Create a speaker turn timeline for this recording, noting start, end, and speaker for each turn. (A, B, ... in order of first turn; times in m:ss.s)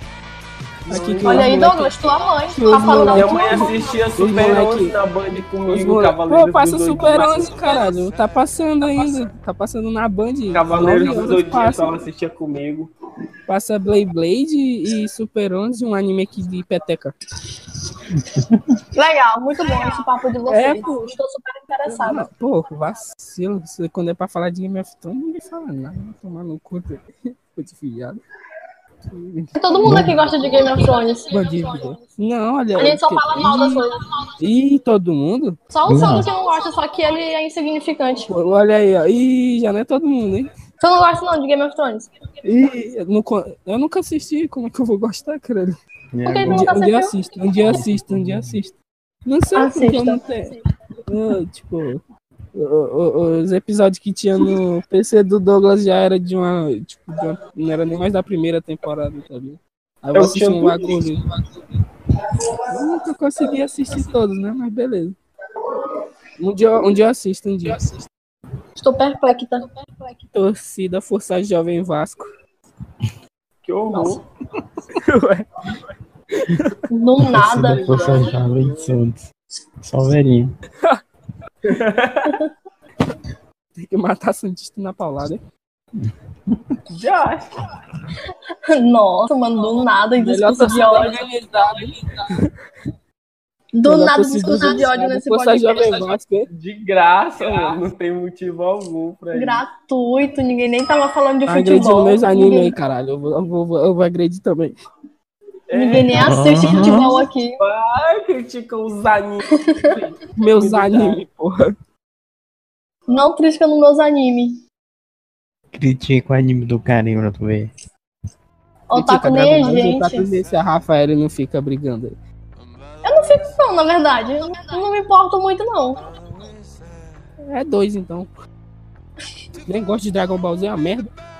0:00.9-0:01.9 A
0:00.9-0:01.7 B
0:01.2-0:03.9 C
0:02.5-0:12.0 B
0:02.7-0:07.8 A
0:10.5-0:12.9 A
0:13.5-0:17.2 B
0:18.9-0:22.3 C
0:20.5-0:21.1 B
0:21.9-0:28.2 B
0:29.1-0:30.0 B
0:29.6-0:31.4 C
0:29.8-0:30.2 D
0:31.3-0:35.6 B
0:32.8-0:34.0 C
0:35.7-0:38.3 C
0:35.9-0:36.3 D
0:38.3-0:40.5 B
0:40.8-0:42.1 C
0:42.4-0:45.8 B
0:46.1-0:46.8 D
0:46.2-0:47.6 C
0:46.5-0:50.5 B
0:47.7-0:48.6 D
0:49.5-0:50.2 C
0:51.1-0:52.0 B
0:52.5-1:01.4 B
1:00.1-1:01.0 A
1:02.7-1:05.2 B
1:06.4-1:07.9 B
1:08.8-1:09.7 C
1:10.3-1:12.3 B
1:13.6-1:14.2 A
1:15.0-1:15.5 B
1:16.4-1:16.7 B
1:16.9-1:18.4 C
1:17.2-1:19.3 D
1:17.6-1:19.0 A
1:19.8-1:20.6 D
1:21.6-1:22.4 A
1:23.8-1:25.4 B
1:26.0-1:26.8 D
1:26.9-1:27.7 A
1:28.7-1:31.2 C
1:30.2-1:32.5 B
1:33.8-1:36.1 C
1:33.8-1:36.5 B
1:36.5-1:39.6 A
1:39.3-1:42.7 C
1:41.5-1:44.8 B
1:45.7-1:46.3 A
1:45.7-1:47.6 C
1:46.1-1:47.2 D
1:47.6-1:51.2 A
1:49.5-1:49.9 C
1:50.3-1:51.7 B
1:53.1-1:54.6 C
1:55.7-1:57.7 D
1:58.9-2:00.3 C
1:58.9-2:02.2 B
2:03.0-2:06.0 C
2:07.5-2:08.3 B
2:09.6-2:11.1 B